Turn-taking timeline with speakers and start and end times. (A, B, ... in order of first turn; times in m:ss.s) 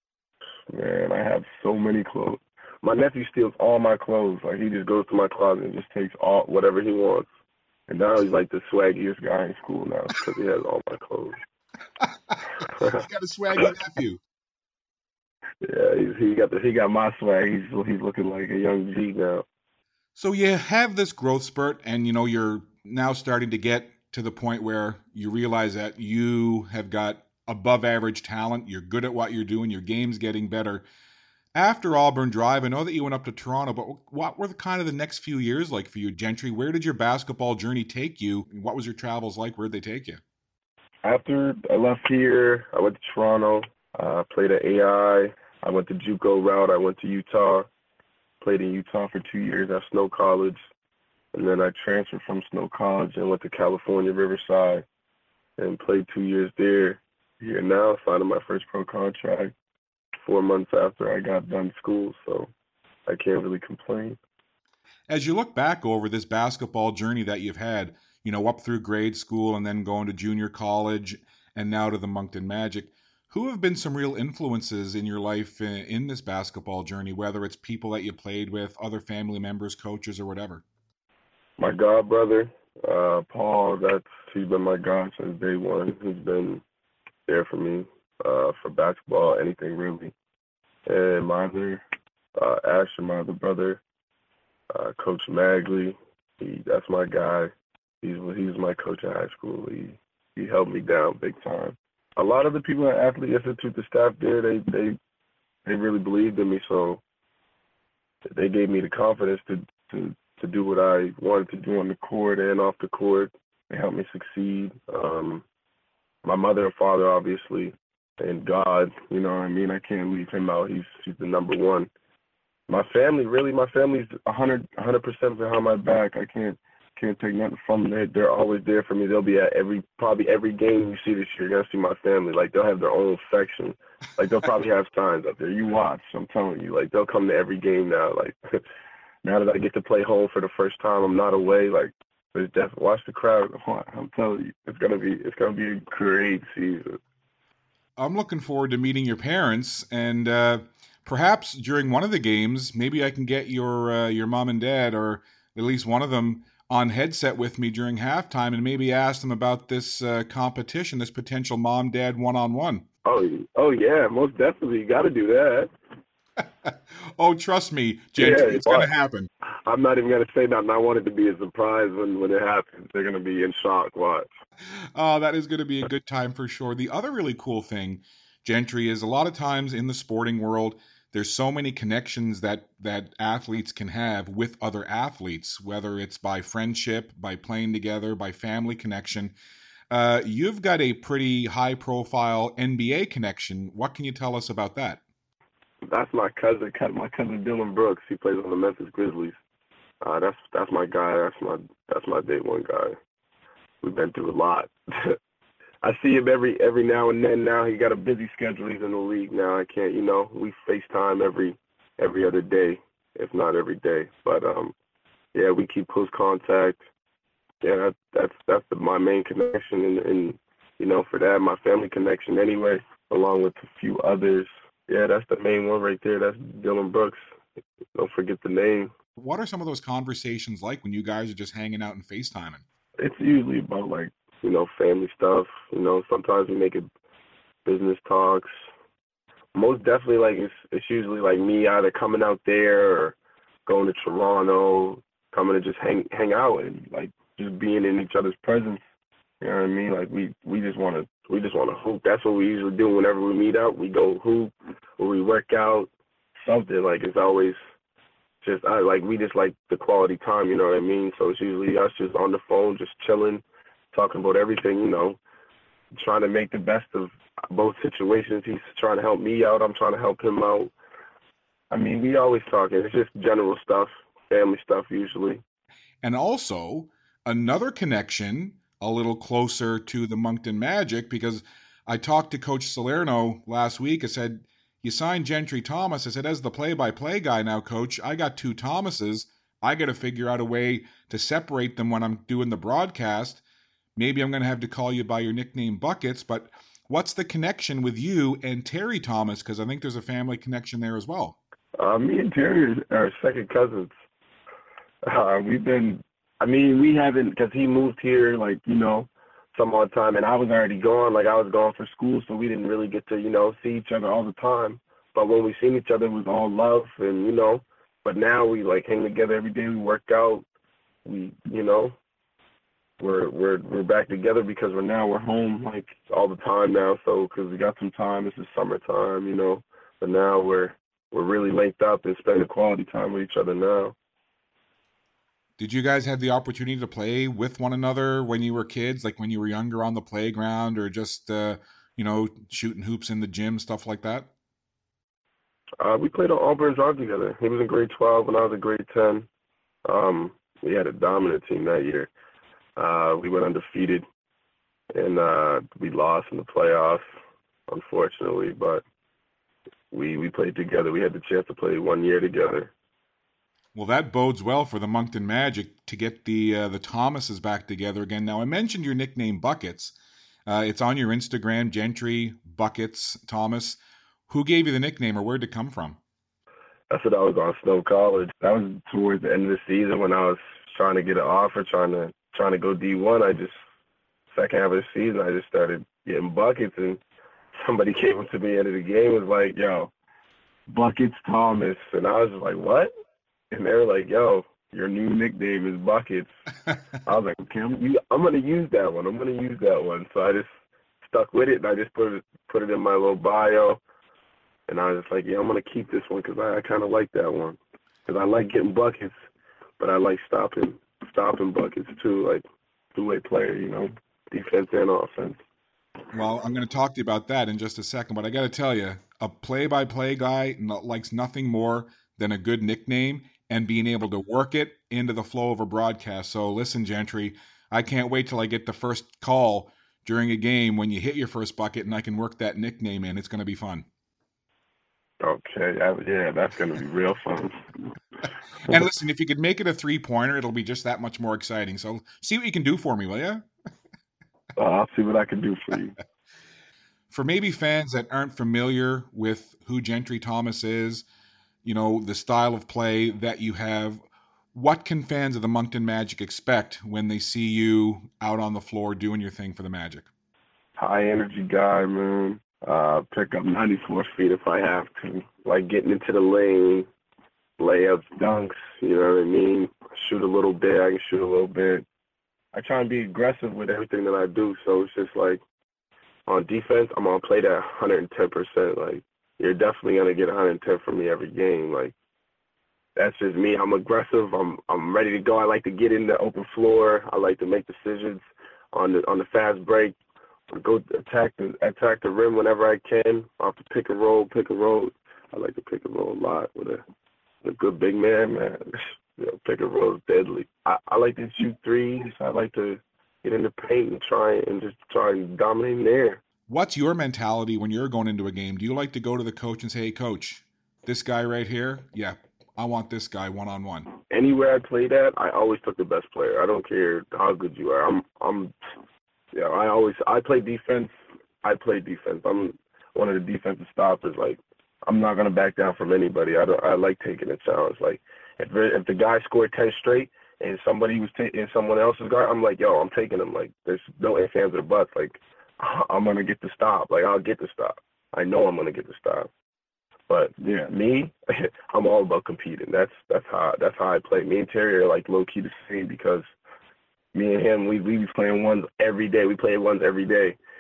0:00.7-0:07.3 A
0:07.9-0:11.4 A
0:12.0-0:14.2 B
0:15.6-0:19.4 A
0:20.2-0:30.8 B
0:31.6-0:40.2 B
0:41.0-0:47.7 A
0:48.4-0:50.6 A
0:51.3-0:54.8 A
0:55.6-0:59.5 A
1:00.2-1:02.5 A
1:03.1-1:04.2 A
1:05.1-1:20.6 B
1:21.6-1:26.6 A
1:27.3-1:30.1 A
1:30.9-1:31.8 A
1:32.4-1:33.8 A
1:34.7-1:37.5 A
1:38.0-1:45.0 A
1:45.6-1:47.0 A
1:48.3-1:55.4 A
1:56.2-2:01.9 A
2:02.7-2:18.4 A
2:19.2-2:27.0 A
2:28.0-2:42.8 B
2:43.0-2:45.7 A
2:46.4-2:49.3 B
2:48.2-2:48.9 A
2:49.4-2:54.3 A
2:54.7-3:09.3 B
3:09.9-3:15.0 B
3:15.9-3:19.4 A
3:20.0-3:23.0 A
3:23.8-3:25.2 A
3:25.8-3:34.7 A
3:35.3-3:36.8 A
3:37.6-3:47.2 A
3:48.0-3:48.9 A
3:49.2-3:52.6 B
3:53.0-3:56.9 A
3:57.6-3:58.5 A
3:59.6-4:08.8 A
4:09.4-4:17.6 A
4:18.4-4:25.2 A
4:25.9-4:30.7 A
4:31.7-4:35.4 A
4:36.0-4:53.4 B
4:54.0-5:01.4 B
5:01.8-5:03.9 A
5:05.0-5:20.4 A
5:21.0-5:22.0 A
5:23.0-5:34.0 A
5:35.6-5:44.3 B
5:45.8-5:49.3 A
5:49.8-5:52.1 A
5:52.8-5:54.0 A
5:55.0-5:57.0 A
5:57.7-5:58.8 A
5:59.9-6:02.7 A
6:03.8-6:09.9 B
6:10.5-6:16.0 B
6:16.9-6:23.6 A
6:24.3-6:27.0 A
6:27.6-6:29.9 A
6:30.7-6:32.9 A
6:33.5-6:36.3 A
6:37.0-6:40.5 A
6:41.0-6:43.8 A
6:44.7-6:49.1 A
6:49.8-6:55.4 A
6:56.1-7:13.9 B
7:15.2-7:17.6 A
7:18.7-7:23.5 B
7:24.6-7:26.0 A
7:27.1-7:31.1 B
7:31.6-7:34.0 B
7:34.5-7:40.1 B
7:40.8-7:46.9 A
7:47.6-7:51.8 A
7:52.5-7:55.4 A
7:56.3-8:02.0 A
8:03.0-8:10.0 A
8:10.5-8:16.8 A
8:17.4-8:26.2 A
8:26.5-8:33.9 B
8:34.1-8:38.5 A
8:39.3-8:59.3 A
9:00.1-9:06.3 A
9:07.1-9:10.4 A